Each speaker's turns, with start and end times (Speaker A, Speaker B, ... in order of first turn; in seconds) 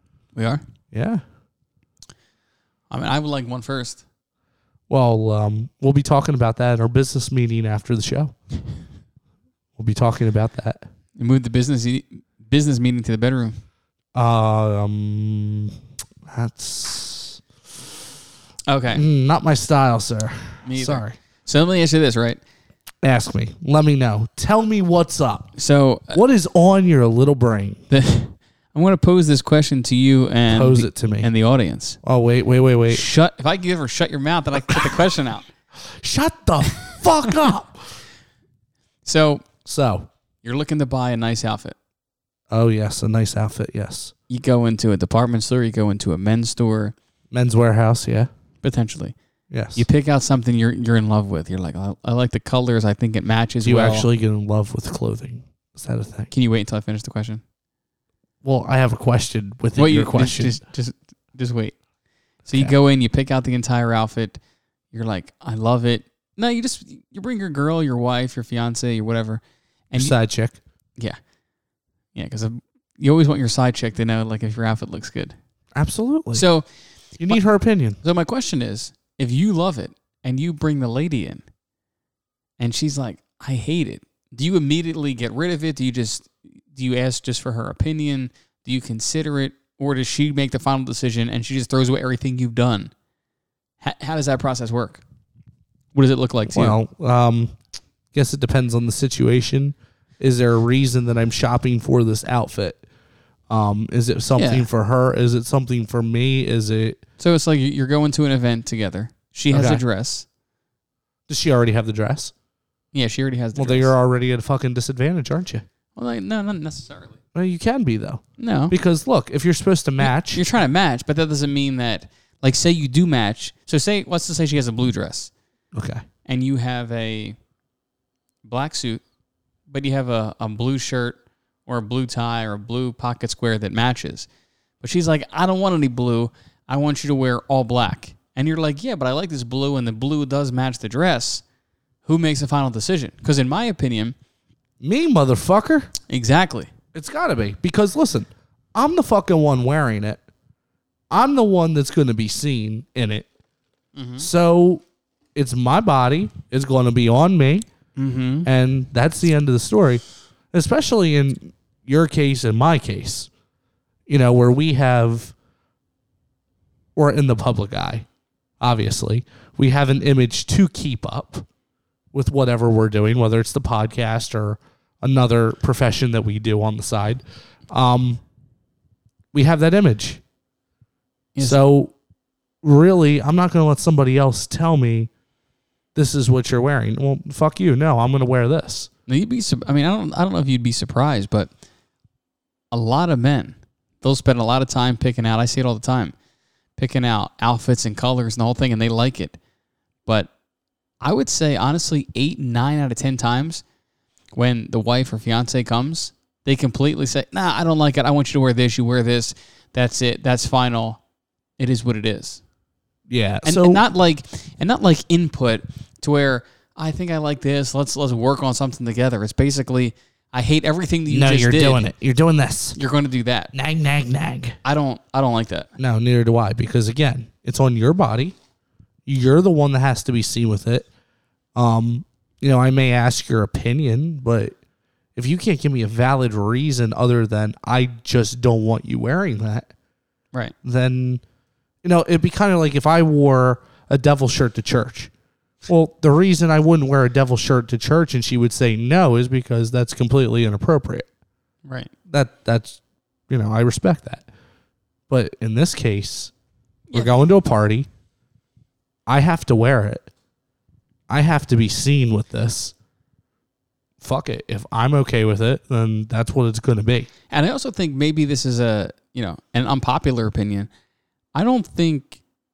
Speaker A: 0.3-0.6, 2.9-4.0, 11.2-13.6, 18.7-19.1, 20.6-22.4, 25.6-26.2, 27.9-32.0, 32.9-35.5, 39.0-39.4, 40.4-41.8, 44.3-47.0, 48.6-49.2, 49.8-54.1, 56.3-57.4, 59.8-61.8, 62.5-64.4, 64.9-70.2, 72.1-75.4, 76.3-76.7, 78.0-81.4, 82.6-92.9, 93.8-95.0, 95.9-96.8, 104.3-104.7, 107.2-110.2, 112.9-113.9, 116.0-117.2, 118.4-118.8, 120.0-125.3, 126.3-127.4, 128.4-129.0, 129.7-134.3, 134.8-141.4, 142.1-144.2, 146.1-146.7, 154.0-154.3, 158.0-158.5, 181.3-181.6, 189.1-191.5, 192.7-196.2, 196.8-199.4, 200.1-200.3, 201.0-203.6, 204.3-211.0, 211.6-212.4, 213.4-221.8, 222.8-223.5, 224.6-225.7, 251.7-251.9, 267.3-270.7, 271.3-272.2
Speaker B: 0.9-1.2, 4.9-8.3, 9.8-10.8, 14.1-15.7, 16.3-17.4, 18.9-21.2, 23.0-25.5, 26.1-27.8, 30.5-31.3, 32.0-33.0, 35.9-37.9, 39.6-40.1, 42.5-44.1, 47.3-48.3, 49.5-49.9, 53.6-56.3, 58.4-60.6, 62.5-62.7, 70.0-70.6, 75.8-76.5, 77.2-78.0, 96.5-97.5, 98.1-102.8, 103.5-107.0, 109.5-109.8, 111.3-112.3, 113.5-115.7, 117.3-120.4, 125.7-126.0, 144.8-145.9, 146.9-150.2, 151.1-153.3, 154.2-154.8, 155.3-157.7, 158.4-163.3, 164.1-165.3, 167.0-168.1, 168.6-171.5, 172.1-178.2, 179.3-180.2, 181.4-181.9, 182.6-185.1, 185.9-188.9, 213.1-213.8, 221.1-222.8, 223.5-224.6, 225.8-228.4, 229.1-230.9, 231.6-234.6, 235.2-239.7, 240.6-241.2, 241.8-245.1, 245.7-251.1, 252.1-254.3, 255.1-256.3, 256.9-257.9, 259.1-260.1, 261.1-262.7, 264.0-267.1